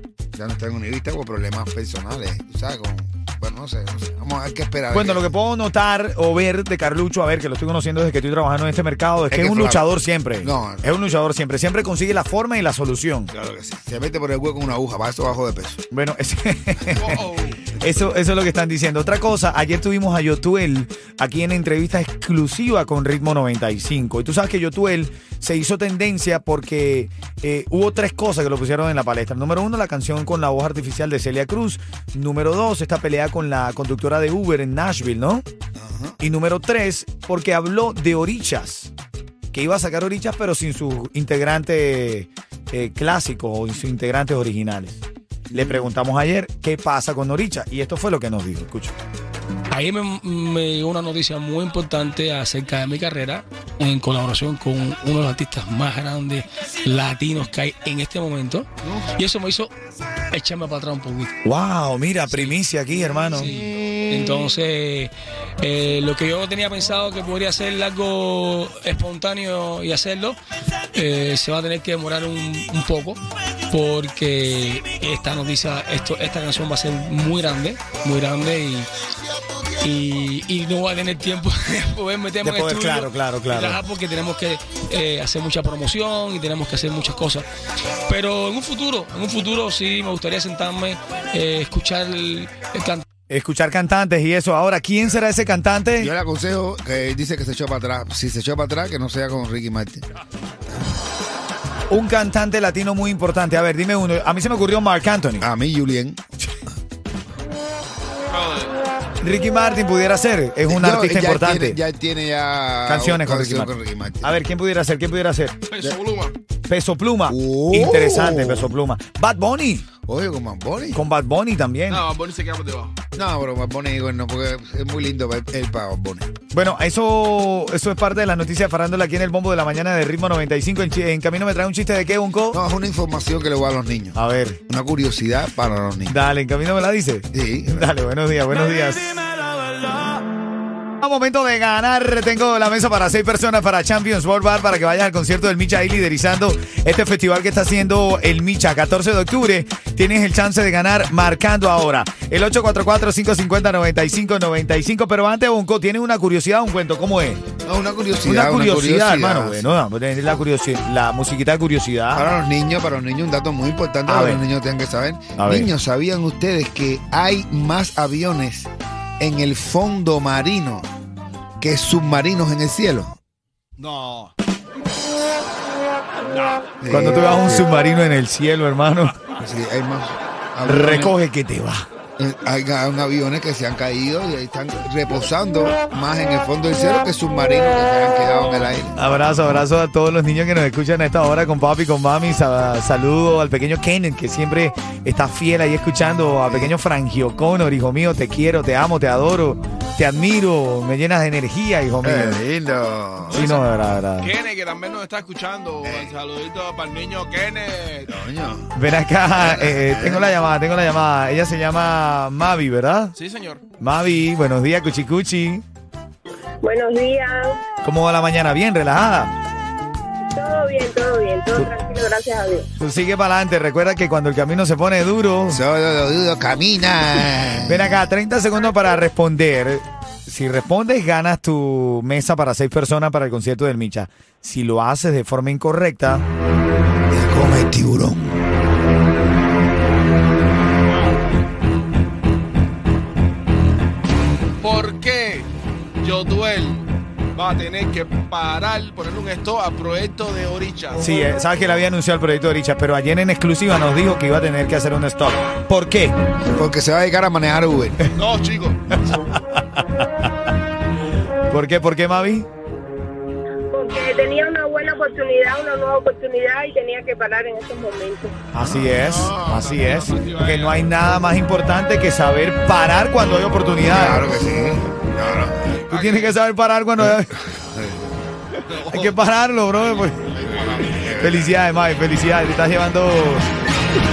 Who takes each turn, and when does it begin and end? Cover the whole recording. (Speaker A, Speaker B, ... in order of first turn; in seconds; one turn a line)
Speaker A: 0.3-5.3
Speaker B: 4.9-13.3
Speaker A: 9.3-9.9
Speaker A: 10.4-10.9
Speaker A: 13.3-15.8
Speaker B: 15.9-35.4
Speaker C: 16.9-17.6
Speaker A: 35.7-36.2
Speaker B: 36.2-38.9
Speaker B: 39.5-48.9
Speaker A: 45.5-45.8
Speaker D: 49.7-61.3
Speaker B: 61.4-63.5
Speaker D: 62.3-62.5
Speaker D: 63.3-70.4
Speaker D: 70.9-78.9
Speaker D: 79.5-87.5
Speaker B: 82.4-83.8
Speaker D: 88.0-93.0
Speaker B: 93.3-96.1
Speaker A: 96.0-100.0
Speaker B: 101.9-105.5
Speaker A: 105.4-106.2
Speaker C: 108.3-108.8
Speaker B: 109.2-111.8
Speaker A: 110.7-114.4
Speaker B: 112.8-115.6
Speaker C: 115.7-116.4
Speaker B: 116.7-119.9
Speaker A: 117.3-118.7
Speaker A: 120.0-121.0
Speaker B: 120.9-122.1
Speaker C: 121.9-123.0
Speaker A: 123.2-126.3
Speaker B: 126.5-132.6
Speaker A: 132.5-136.2
Speaker B: 134.1-134.6
Speaker B: 136.1-140.3
Speaker A: 137.3-137.9
Speaker B: 141.0-157.4
Speaker A: 157.6-159.6
Speaker B: 158.2-162.3
Speaker A: 162.1-170.9
Speaker B: 164.1-164.4
Speaker B: 165.4-165.7
Speaker A: 171.6-173.2
Speaker C: 173.8-174.3
Speaker C: 176.2-176.6
Speaker A: 176.8-177.6
Speaker B: 176.9-179.2
Speaker A: 179.3-181.2
Speaker B: 180.6-181.8
Speaker A: 182.2-189.5
Speaker B: 188.9-202.4
Speaker A: 196.4-196.7
Speaker A: 202.0-203.4
Speaker B: 203.3-204.3
Speaker C: 203.3-208.2
Speaker A: 205.8-206.2
Speaker A: 208.1-208.7
Speaker B: 208.7-213.1
Speaker A: 209.3-210.3
Speaker C: 213.2-213.6
Speaker B: 213.8-215.6
Speaker E: 216.6-217.6
Speaker B: 217.8-219.3
Speaker E: 220.3-222.7
Speaker B: 222.8-225.6
Speaker A: 225.5-228.0
Speaker B: 227.7-236.2
Speaker A: 237.1-238.4
Speaker C: 240.9-241.2
Speaker C: 244.6-251.1
Speaker B: 251.0-256.2
Speaker A: 256.5-258.1
Speaker C: 258.1-258.8
Speaker B: 258.9-260.5
Speaker B: 261.5-262.5
Speaker E: 263.7-268.4
Speaker B: 268.5-274.2
Speaker A: 268.6-268.9
Speaker C: 268.9-270.8
Speaker A: 273.9-275.8
Speaker C: 275.9-276.4
Speaker B: 275.9-277.4
Speaker A: 277.0-278.1
Speaker C: 278.6-279.1
Speaker B: 278.8-280.2
Speaker C: 279.9-281.0
Speaker A: 280.4-281.5
Speaker B: 281.1-283.5